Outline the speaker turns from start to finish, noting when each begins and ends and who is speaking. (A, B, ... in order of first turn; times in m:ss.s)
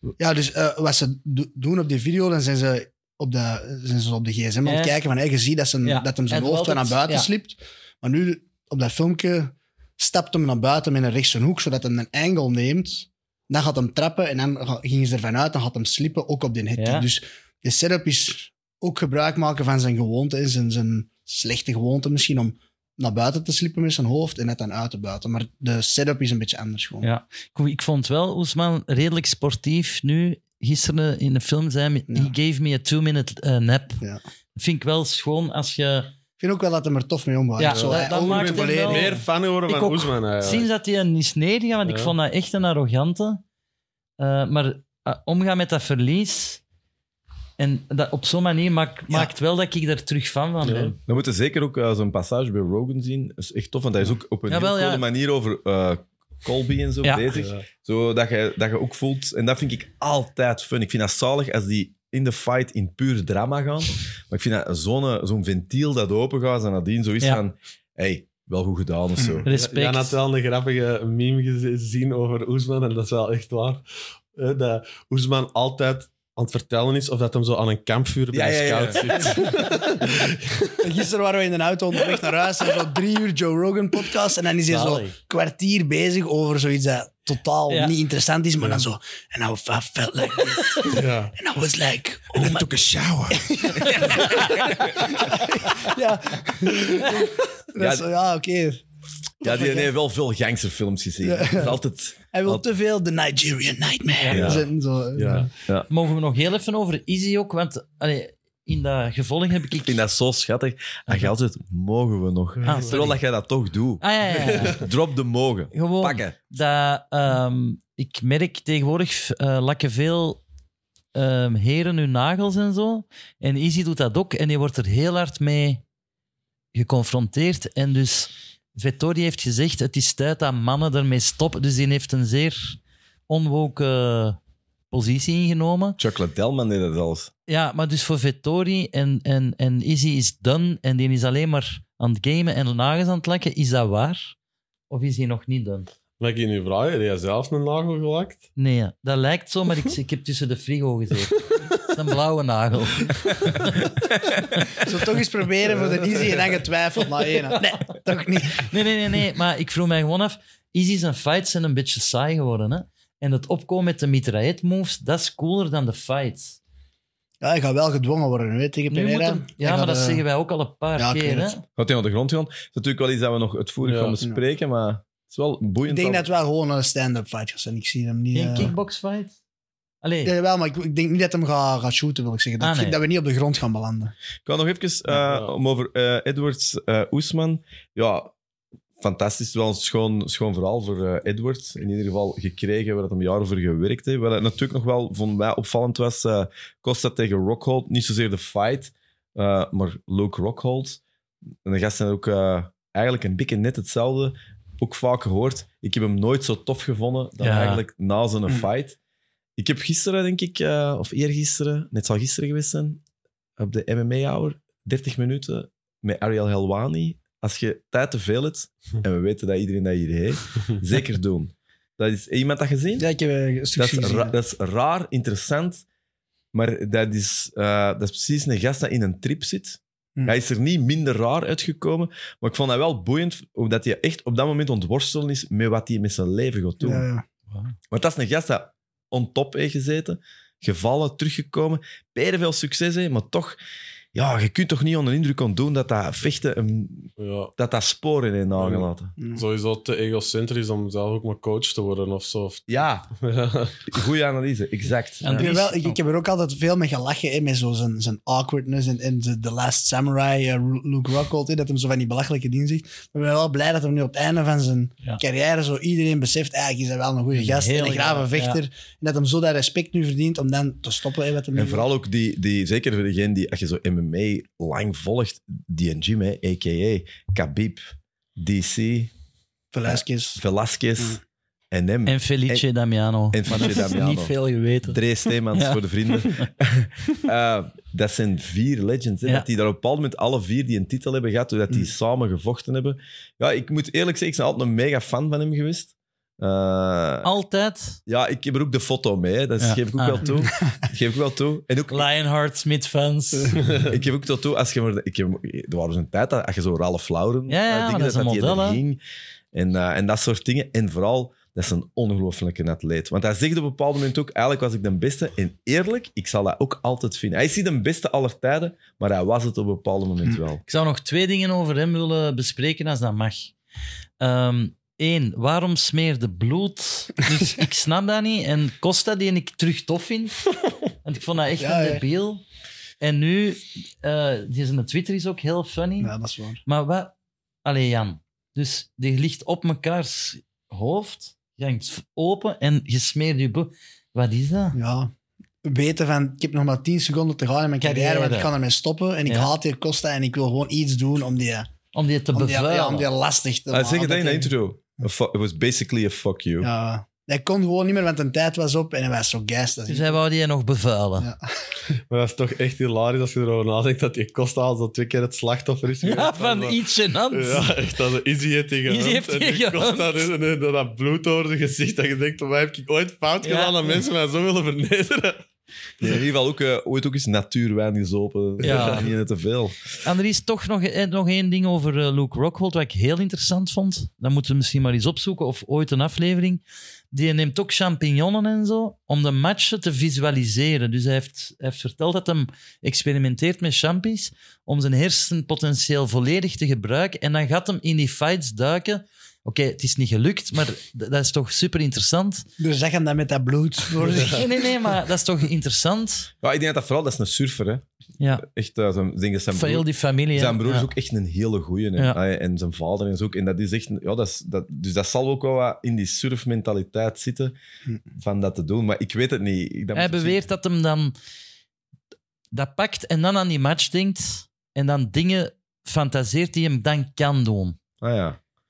0:00.2-0:27.1 A
0:04.6-0:05.0 B
0:05.8-0:07.3 B
0:16.8-0:17.1 B
0:27.0-0:34.0 B
0:32.1-0:32.3 A
0:34.5-0:36.1 B
0:36.4-0:39.2 A
0:37.6-0:43.4 B
0:37.6-0:40.7 C
0:41.8-0:42.1 C
0:44.2-0:46.6 B
0:47.6-0:51.0 B
0:50.6-0:50.9 C
0:51.1-1:09.4 D
0:54.5-0:55.0 B
0:57.3-0:57.6 C
1:09.2-1:09.5 A
1:09.4-1:10.2 B
1:09.5-1:13.8 C
1:14.4-1:20.8 C
1:18.3-1:19.4 D
1:20.8-1:38.8 A
1:24.7-1:25.2 B
1:27.7-1:27.9 B
1:30.8-1:31.3 C
1:32.4-1:35.2 D
1:33.8-1:34.7 B
1:37.8-1:38.0 D
1:39.4-1:39.9 A
1:39.4-1:42.6 D
1:41.2-1:41.8 A
1:42.3-1:45.5 A
1:44.2-1:44.5 B
1:44.3-1:44.6 D
1:44.4-1:45.5 C
1:45.9-1:50.0 B
1:49.8-1:56.4 D
1:52.6-1:52.9 C
1:52.6-1:53.2 B
1:54.0-1:54.8 B
1:54.4-1:54.7 C
1:55.7-2:00.4 B
2:01.1-2:05.8 B
2:06.7-2:14.4 B
2:14.9-2:16.0 B
2:16.0-2:17.3 D
2:17.5-2:24.3 B
2:24.9-2:25.9 B
2:26.2-2:28.4 C
2:28.6-2:33.9 B
2:34.2-2:34.4 D
2:34.8-2:38.7 A
2:35.8-2:36.4 C
2:37.4-2:37.8 B
2:38.5-2:46.6 B
2:47.4-2:50.2 A
2:48.9-2:51.6 B
2:51.0-2:51.5 A
2:51.8-2:56.2 D
2:53.8-2:54.2 C
2:55.9-2:58.7 A
2:58.3-2:59.3 B
3:00.0-3:00.3 B
3:00.2-3:04.1 A
3:02.6-3:03.0 B
3:04.4-3:08.3 D
3:05.1-3:05.5 C
3:09.0-3:21.0 D
3:21.6-3:29.0 D
3:27.4-3:27.8 B
3:29.6-3:33.0 D
3:33.6-3:43.1 D
3:43.0-3:44.3 A
3:43.8-3:45.8 D
3:46.5-3:57.0 D
3:56.8-3:57.2 A
3:57.9-4:03.6 D
4:04.1-4:09.1 D
4:07.2-4:07.5 C
4:08.6-4:13.9 C
4:12.7-4:13.1 D
4:13.9-4:15.5 D
4:15.2-4:16.0 B
4:15.2-4:31.9 A
4:27.3-4:28.6 B
4:31.6-4:37.8 D
4:38.4-4:39.1 D
4:39.7-4:40.4 A
4:39.9-4:41.2 D
4:41.7-4:42.6 D
4:42.0-4:46.5 B
4:43.3-4:44.3 D
4:44.9-4:57.3 D
4:57.2-4:58.0 B
4:58.1-5:02.1 D
4:59.6-5:00.3 B
5:01.9-5:03.6 B
5:03.8-5:09.0 D
5:07.5-5:08.8 B
5:09.5-5:20.6 D
5:20.7-5:23.5 B
5:24.2-5:30.4 B
5:31.0-5:32.4 B
5:31.6-5:32.0 A
5:33.0-5:36.1 B
5:36.0-5:36.6 A
5:36.6-5:44.8 B
5:44.7-5:45.1 A
5:45.6-5:51.7 A
5:47.8-5:48.5 B
5:49.2-5:49.5 B
5:51.9-5:53.1 B
5:52.3-5:54.5 A
5:53.7-5:56.7 D
5:56.6-6:00.2 A
5:59.9-6:01.3 B
6:02.1-6:06.8 C
6:06.0-6:07.7 B
6:07.3-6:15.4 C
6:08.9-6:10.2 B
6:13.4-6:14.0 B
6:16.0-6:19.8 D
6:18.6-6:19.1 B
6:18.6-6:19.0 C
6:20.0-6:42.4 B
6:42.6-6:44.7 A
6:44.1-6:46.3 B
6:46.4-6:47.8 D
6:48.2-6:48.4 B
6:48.4-6:57.6 D
6:49.5-6:50.9 B
6:58.1-7:00.4 D
6:59.9-7:01.1 B
7:02.5-7:07.8 B
7:08.0-7:08.4 D